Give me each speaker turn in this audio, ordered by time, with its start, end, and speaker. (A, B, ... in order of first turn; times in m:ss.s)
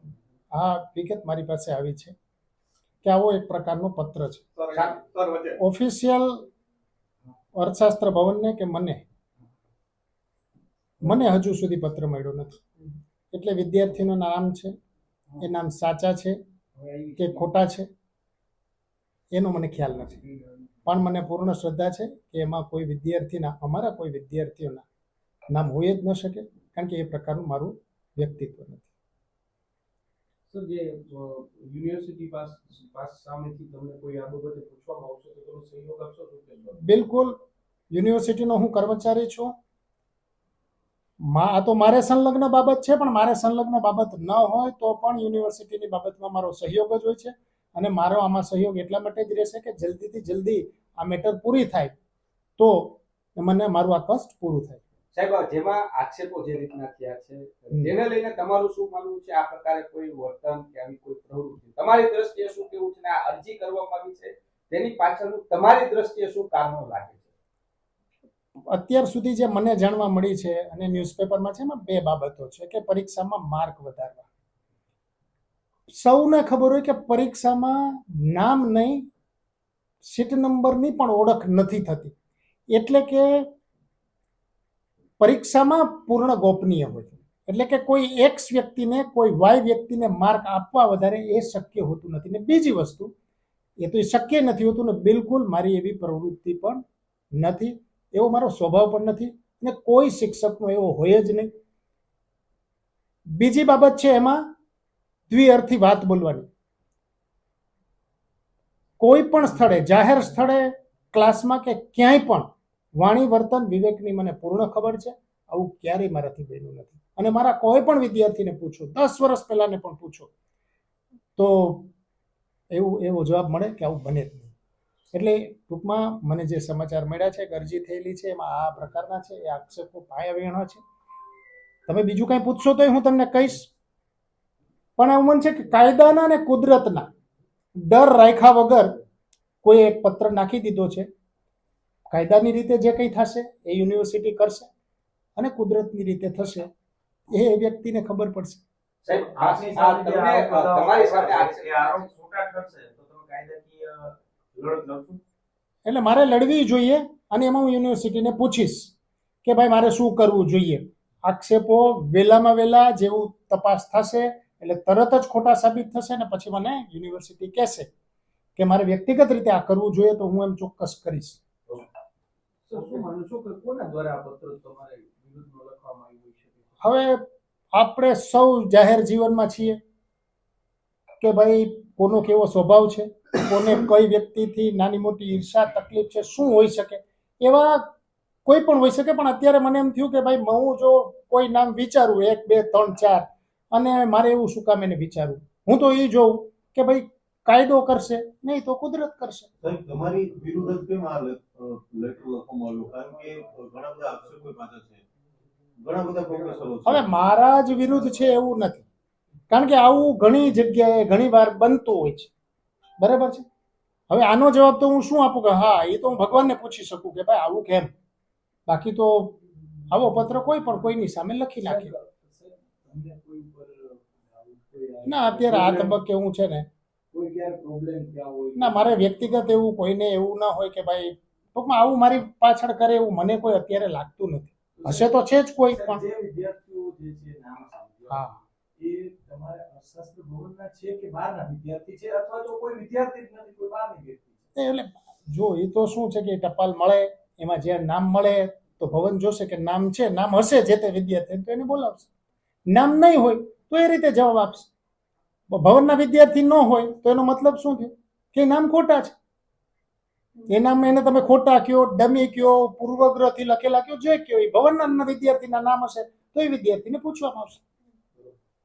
0:00.5-0:02.1 A
0:03.0-0:04.4 A
0:04.6-0:05.6 B
0:04.7-0:05.1 C
0:05.6-0:06.5 A
0:07.5-0:09.0 A
0:11.0-0:12.6 A
0:13.3-0:14.7 A
0:15.4-0:16.4 A
0:16.8-0:17.5 D
0:17.2-0:17.9 A
0:19.3-0:20.2 A
0:20.8-0:24.8 A
0:25.5-0:28.9 A
0:36.8-0:37.4 A
0:37.9-0:39.5 A
0:41.2-0:52.0 A
0:52.6-0:54.8 A
0:55.1-1:07.3 C
1:08.7-1:14.2 A
1:15.9-1:19.0 A
1:20.0-1:22.1 A
1:22.7-1:23.5 A
1:25.2-1:33.1 A
1:33.8-1:36.8 A
1:37.4-1:41.5 A
1:43.3-1:44.4 A
1:45.3-1:46.5 A
1:49.0-2:00.3 A
2:01.4-2:01.9 A
2:02.7-2:04.5 A
2:05.1-2:10.8 A
2:11.9-2:13.7 A
2:15.0-2:17.1 A
2:17.8-2:19.0 A
2:19.6-2:21.1 A
2:22.1-2:24.7 A
2:25.4-2:26.7 A
2:27.3-2:28.6 A
2:29.0-2:32.0 C
2:29.1-2:35.2 D
2:35.8-2:38.9 A
2:39.4-2:47.9 A
2:48.6-2:51.4 A
2:52.7-2:53.0 D
2:52.7-2:53.0 C
2:54.6-2:56.6 D
2:56.8-2:59.8 A
3:01.2-3:07.9 A
3:08.4-3:19.5 A
3:19.6-3:25.0 B
3:25.8-3:27.1 B
3:26.8-3:28.8 A
3:29.5-3:32.3 A
3:33.0-3:33.4 A
3:34.1-3:37.9 A
3:38.7-3:39.4 A
3:39.9-3:41.9 A
3:41.6-3:46.0 D
3:45.0-3:46.7 A
3:47.1-3:49.1 D
3:48.5-3:56.0 A
3:54.8-4:04.4 D
3:58.1-3:58.4 A
4:04.6-4:12.1 A
4:12.7-4:14.7 A
4:15.5-4:19.1 A
4:20.5-4:27.6 A